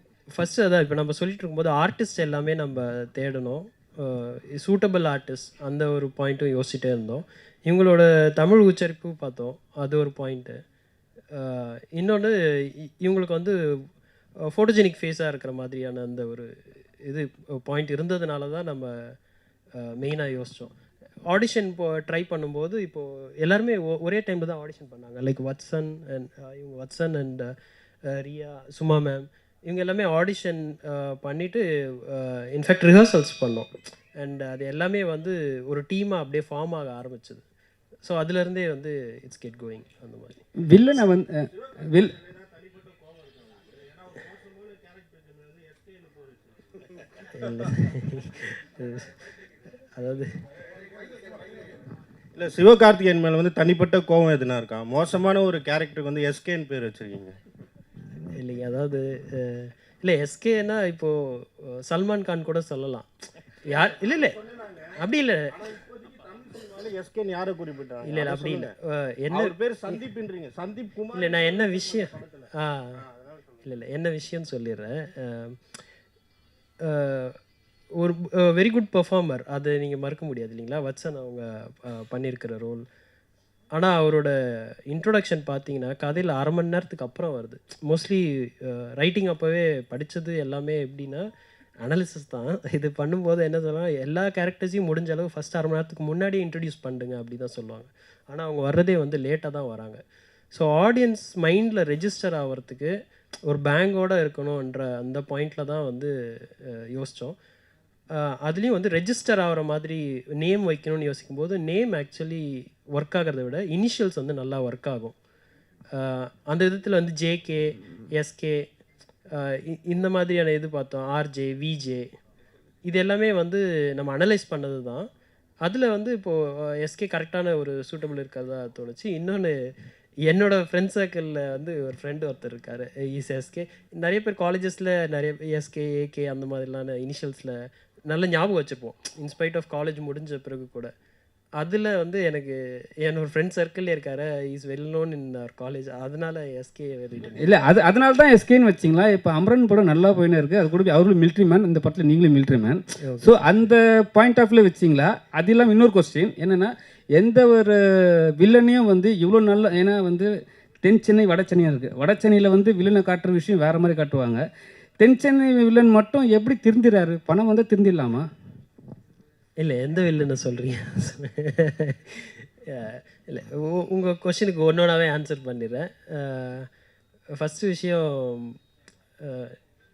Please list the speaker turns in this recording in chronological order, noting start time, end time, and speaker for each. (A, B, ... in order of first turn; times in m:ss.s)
0:00.3-0:10.6 A
0:11.3-0:13.6 A
0:14.5-0:16.5 A
0:17.0-0:19.1 A
0:19.8-0:20.7 A
0:21.3-0:27.5 A
0:28.0-0:37.4 A
0:38.0-0:40.4 A
0:40.7-0:42.2 B
0:47.4-0:49.1 A
0:50.0-0:50.3 A
0:52.3-0:57.4 C
0:58.3-1:03.1 A
1:03.6-1:04.4 A
1:05.0-1:05.6 A
1:06.0-1:08.7 C
1:08.0-1:09.5 A
1:09.3-1:12.4 C
1:11.1-1:12.1 A
1:12.6-1:13.0 A
1:13.0-1:13.3 C
1:13.6-1:15.6 A
1:16.8-1:17.4 A
1:18.0-1:22.8 A
1:23.7-1:31.3 A
1:31.8-1:42.9 A
1:43.5-1:47.4 A
1:48.1-1:55.2 A
1:55.9-1:58.7 A
1:59.3-2:02.1 A
2:02.8-2:05.1 A
2:05.6-2:09.6 A
2:10.3-2:20.9 A
2:21.6-2:27.6 A
2:27.4-2:37.8 B
2:33.0-2:33.3 A
2:38.4-2:40.3 B
2:40.8-2:44.4 B
2:45.0-2:48.2 B
2:49.6-2:56.7 A
2:57.4-2:58.6 A
2:59.2-2:59.6 A